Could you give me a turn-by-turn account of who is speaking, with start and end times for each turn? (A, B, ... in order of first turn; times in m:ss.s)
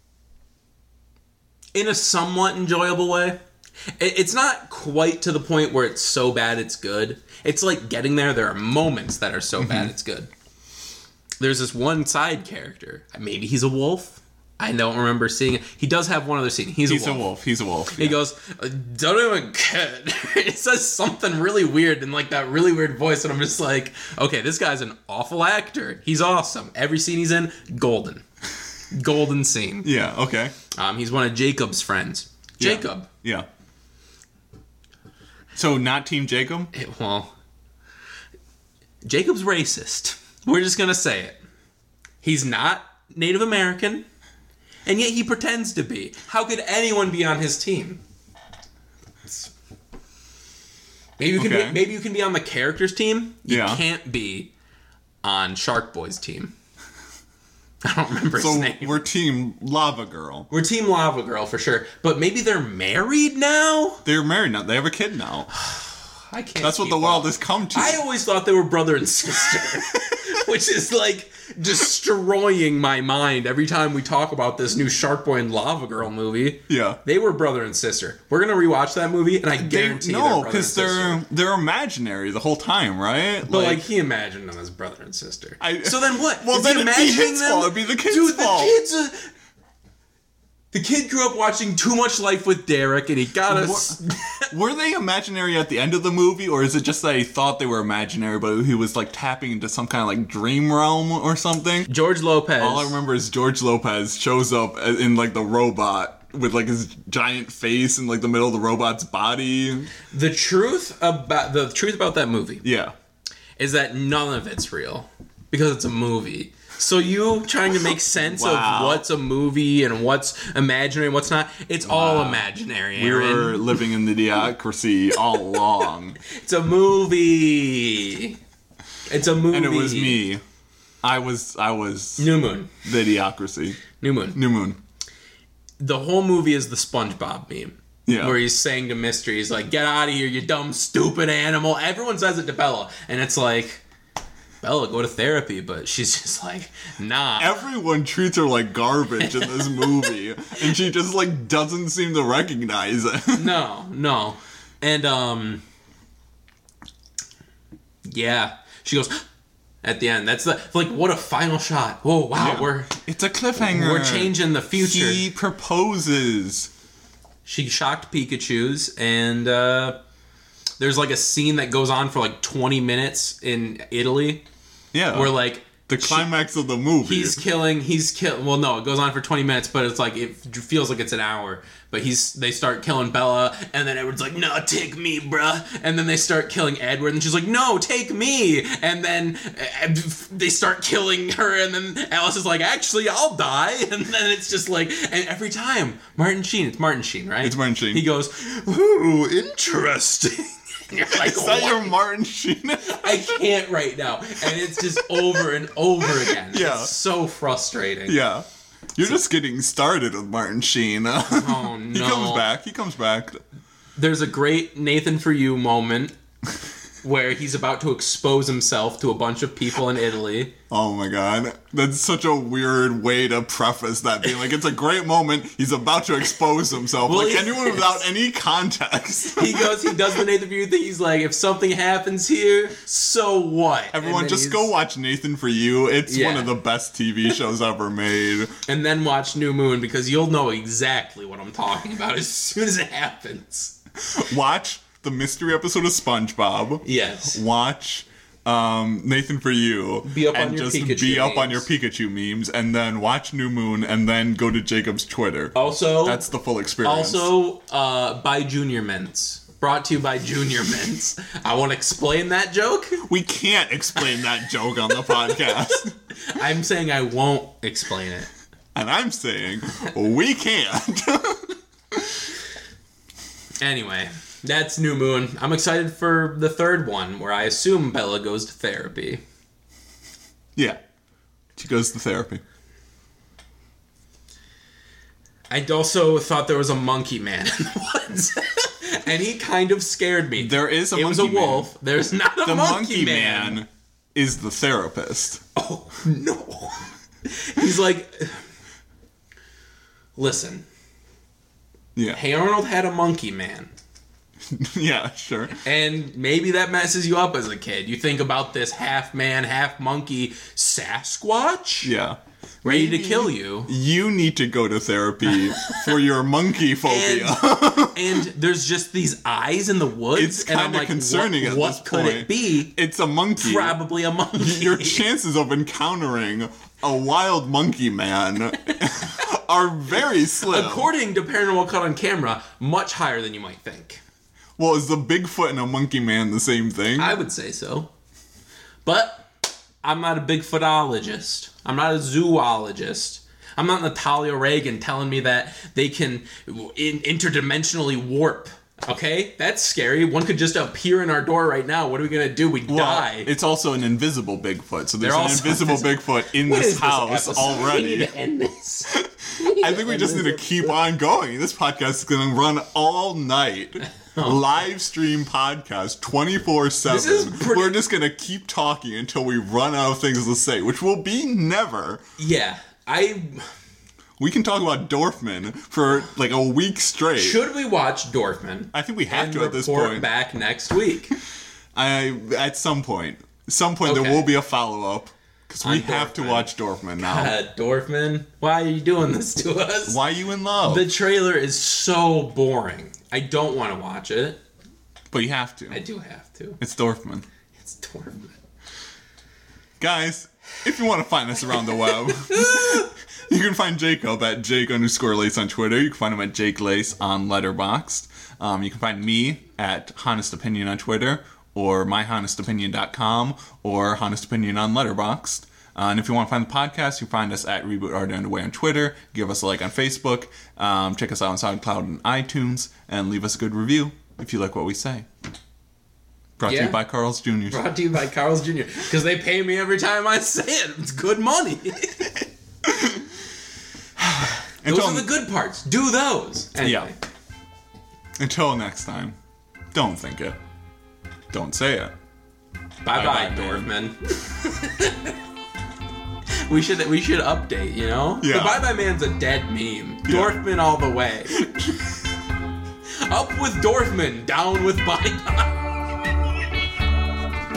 0:01.7-0:03.4 A
0:04.0-0:10.3 A
0:09.6-0:09.9 B
0:11.4-0:17.3 A
0:16.8-0:18.2 B
0:18.0-0:28.2 A
0:28.9-0:29.9 A
0:29.8-0:30.5 B
0:30.7-0:33.1 A
0:32.6-0:33.5 B
0:35.5-0:36.7 B
0:36.7-0:37.3 A
0:39.0-0:41.4 A
0:42.2-0:44.0 A
0:44.8-0:48.0 A
0:51.2-0:54.5 A
0:51.4-0:51.8 B
0:53.5-0:53.8 B
0:55.2-0:56.5 A
0:57.8-0:59.0 A
0:58.3-1:00.5 B
1:00.5-1:04.0 A
1:04.0-1:05.5 B
1:05.6-1:21.2 A
1:06.6-1:08.0 B
1:16.7-1:17.0 B
1:19.5-1:23.8 B
1:23.5-1:29.3 A
1:25.6-1:28.8 B
1:30.7-1:34.5 A
1:33.5-1:34.0 B
1:34.5-1:41.9 B
1:41.9-1:43.0 A
1:42.6-1:49.9 B
1:50.1-1:52.6 A
1:52.6-1:52.9 B
1:53.6-2:03.6 A
1:58.2-1:59.0 B
2:01.8-2:06.2 B
2:06.2-2:08.4 A
2:09.1-2:10.2 A
2:09.5-2:10.4 B
2:11.0-2:13.8 B
2:12.2-2:12.7 A
2:14.0-2:14.4 A
2:14.3-2:14.8 B
2:15.8-2:23.8 A
2:18.0-2:18.4 B
2:24.6-2:27.6 A
2:27.4-2:33.5 B
2:29.2-2:30.0 A
2:33.3-2:35.6 A
2:38.0-2:39.2 A
2:39.8-2:42.9 A
2:42.4-2:46.7 B
2:43.6-2:45.2 A
2:47.4-2:50.0 A
2:50.8-2:54.4 A
2:54.9-2:57.4 B
2:55.1-2:56.3 A
2:57.0-3:21.9 A
3:17.4-3:18.0 B
3:21.1-3:23.3 B
3:22.8-3:28.2 A
3:24.5-3:25.4 B
3:26.0-3:26.9 B
3:28.1-3:33.4 B
3:31.2-3:32.5 A
3:34.0-3:36.1 A
3:37.0-3:40.5 A
3:40.7-3:50.2 B
3:47.0-3:48.0 A
3:49.4-3:54.7 A
3:53.9-3:58.5 B
3:56.0-3:56.5 A
3:58.7-4:03.8 A
4:04.0-4:17.3 B
4:06.8-4:07.4 A
4:10.1-4:11.6 A
4:15.5-4:16.2 A
4:16.8-4:23.0 A
4:23.0-4:25.9 B
4:24.1-4:28.3 A
4:28.7-4:32.2 B
4:33.6-4:39.2 A
4:41.6-4:42.4 B
4:45.5-4:53.6 A
4:50.4-4:51.7 B
4:52.4-4:55.4 B
4:55.5-4:58.5 A
5:00.2-5:00.6 A
5:02.0-5:02.2 B
5:02.1-5:03.7 A
5:04.5-5:05.6 B
5:05.6-5:11.9 A
5:11.8-5:18.2 B
5:12.6-5:13.7 A
5:15.3-5:15.8 A
5:16.8-5:22.7 A
5:20.1-5:23.8 B
5:23.4-5:25.0 A
5:24.3-5:30.9 B
5:30.4-5:34.0 A
5:34.6-5:37.2 B
5:37.0-5:37.9 A
5:38.8-5:39.3 A
5:39.8-5:53.3 A
5:52.7-5:58.1 B
5:55.0-6:00.8 A
5:58.9-6:12.0 B
6:04.1-6:04.4 A
6:06.8-6:07.8 A
6:12.2-6:13.5 A
6:14.2-6:17.4 B
6:17.2-6:21.1 A
6:18.7-6:20.1 B
6:21.7-6:27.4 B
6:23.8-6:24.3 A
6:25.6-6:30.0 A
6:29.9-6:30.9 B
6:30.6-6:34.4 A
6:35.1-6:35.8 B
6:35.7-6:36.6 A
6:36.6-6:37.2 B
6:37.6-6:38.4 A
6:39.8-7:05.1 B
6:42.4-6:42.7 A
7:06.4-7:07.7 B
7:06.4-7:06.8 A
7:07.5-7:12.2 A
7:12.6-7:13.1 B
7:14.0-7:15.1 B
7:14.6-7:16.9 A
7:16.6-7:16.9 B
7:18.2-7:19.2 B
7:19.7-7:20.4 B
7:21.3-7:21.9 B
7:22.8-7:25.1 A
7:22.9-7:23.7 B
7:26.4-7:31.4 A
7:28.2-7:28.6 B
7:30.0-7:30.4 B
7:33.0-7:35.6 A